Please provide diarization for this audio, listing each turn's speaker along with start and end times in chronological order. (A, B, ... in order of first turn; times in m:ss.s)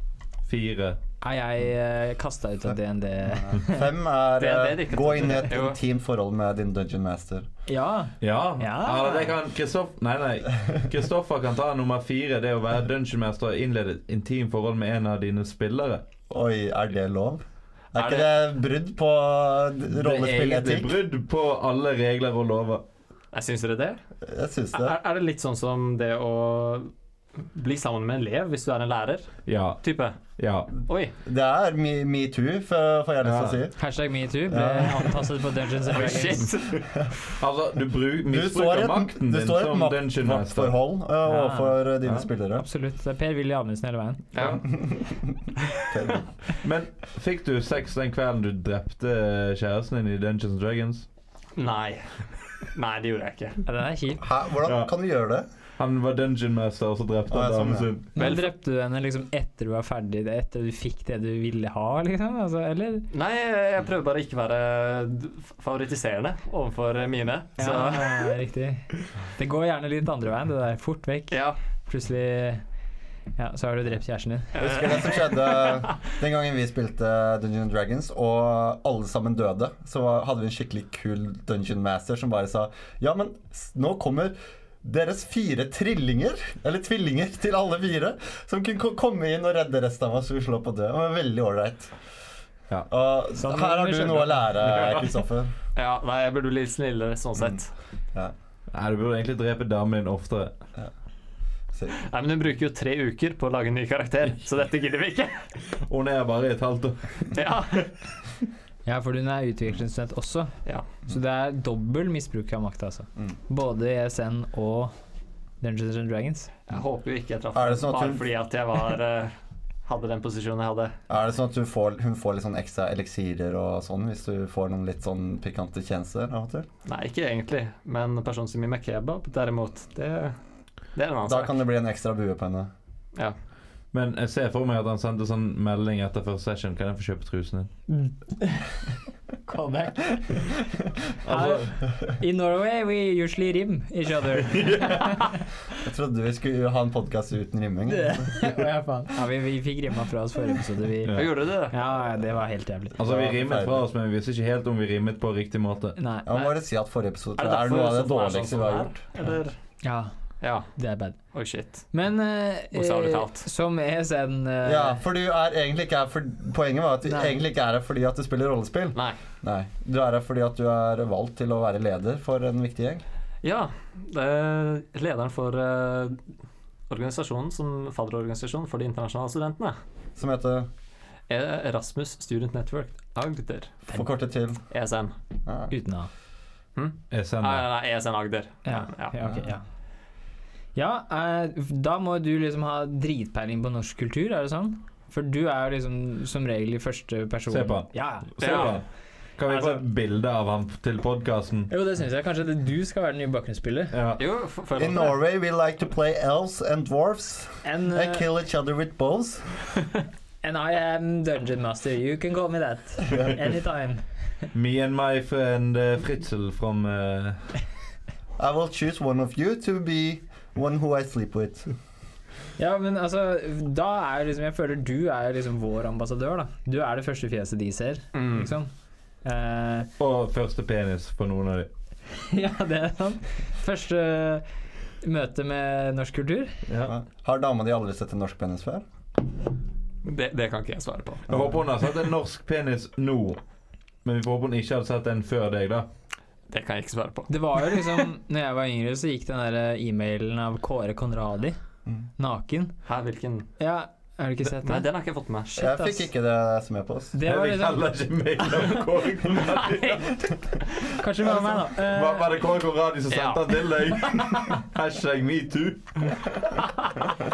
0:00.4-0:01.0 A
0:01.2-0:03.9 B
0:03.2-0:07.5 C
0:04.4-0:05.8 D
0:07.7-0:09.3 B
0:08.2-0:16.0 A
0:16.3-0:17.4 C
0:17.9-0:21.0 C
0:18.0-0:18.3 D
0:19.9-0:22.8 A
0:23.3-0:24.0 D
0:24.2-0:25.0 C
0:24.7-0:30.2 D
0:29.4-0:29.8 A
0:30.4-0:30.7 A
0:30.8-0:31.1 D
0:31.2-0:33.7 C
0:33.2-0:33.6 A
0:33.8-0:36.5 B
0:34.5-0:35.4 C
0:35.8-0:37.0 D
0:36.8-0:37.1 C
0:37.4-0:40.8 A
0:38.3-0:42.6 C
0:41.2-0:41.9 B
0:42.5-0:44.2 B
0:44.3-0:44.6 D
0:44.3-0:44.6 A
0:44.7-0:46.3 C
0:46.6-0:51.0 A
0:51.6-0:53.6 D
0:53.6-0:54.2 B
0:54.2-0:55.4 C
0:54.6-0:54.9 A
0:55.8-0:58.1 A
0:57.3-0:57.9 C
0:58.1-1:03.0 B
0:58.2-0:58.5 D
1:03.1-1:08.3 D
1:07.6-1:08.8 B
1:09.4-1:12.6 B
1:11.3-1:11.6 D
1:13.4-1:14.6 B
1:14.5-1:16.0 D
1:14.6-1:31.9 C
1:32.9-1:35.5 C
1:33.4-1:34.5 B
1:34.7-1:35.0 A
1:35.7-1:37.7 D
1:38.7-1:40.5 A
1:41.9-1:45.5 D
1:45.7-1:47.4 A
1:47.3-1:47.9 D
1:48.8-1:50.5 B
1:51.0-1:54.9 B
1:55.6-1:56.5 B
1:56.7-1:59.3 D
1:57.5-1:58.2 C
1:59.8-2:00.9 D
2:01.1-2:06.7 C
2:06.8-2:10.4 D
2:10.9-2:11.6 D
2:11.2-2:12.7 C
2:13.9-2:17.7 A
2:17.9-2:18.8 B
2:19.4-2:25.4 B
2:21.2-2:21.7 A
2:24.5-2:25.2 A
2:25.7-2:28.6 C
2:27.9-2:33.0 B
2:31.0-2:31.3 A
2:31.2-2:31.7 D
2:33.0-2:36.0 A
2:33.0-2:33.8 C
2:36.0-2:36.3 B
2:36.2-2:39.0 C
2:37.4-2:39.6 D
2:39.8-2:40.1 B
2:40.4-2:40.7 D
2:40.7-2:41.2 B
2:41.3-2:41.9 D
2:41.9-2:45.0 B
2:42.7-2:43.4 D
2:44.6-2:53.0 C
2:47.0-2:47.4 B
2:53.4-2:56.2 D
2:56.9-2:59.8 D
3:00.2-3:00.7 C
3:01.3-3:03.7 D
3:03.9-3:04.6 C
3:04.7-3:05.1 D
3:05.4-3:05.7 C
3:05.7-3:06.1 B
3:06.8-3:09.1 D
3:07.1-3:07.7 A
3:08.6-3:09.6 B
3:09.2-3:09.5 C
3:10.7-3:18.6 B
3:17.5-3:18.8 A
3:18.4-3:18.8 D
3:19.4-3:21.7 A
3:19.4-3:19.8 D
3:21.7-3:24.0 B
3:23.9-3:24.2 A
3:24.2-3:25.2 D
3:24.8-3:29.6 C
3:27.6-3:28.3 B
3:30.4-3:34.5 B
3:34.5-3:37.4 A
3:38.4-3:41.7 C
3:42.6-3:48.7 B
3:48.1-3:48.5 D
3:49.2-3:49.9 B
3:50.0-3:51.7 A
3:52.2-3:54.4 B
3:55.0-3:56.6 B
3:56.7-3:56.9 A
3:56.8-3:58.8 C
4:00.0-4:01.3 D
4:01.3-4:03.4 A
4:01.3-4:01.6 C
4:04.0-4:05.9 A
4:06.5-4:07.8 D
4:07.3-4:11.6 B
4:12.2-4:12.7 B
4:12.8-4:13.5 D
4:13.6-4:14.9 B
4:14.5-4:15.5 D
4:15.5-4:16.1 B
4:15.6-4:17.2 C
4:17.1-4:17.8 B
4:17.2-4:20.3 A
4:20.8-4:22.3 B
4:21.2-4:26.4 A
4:23.1-4:24.3 D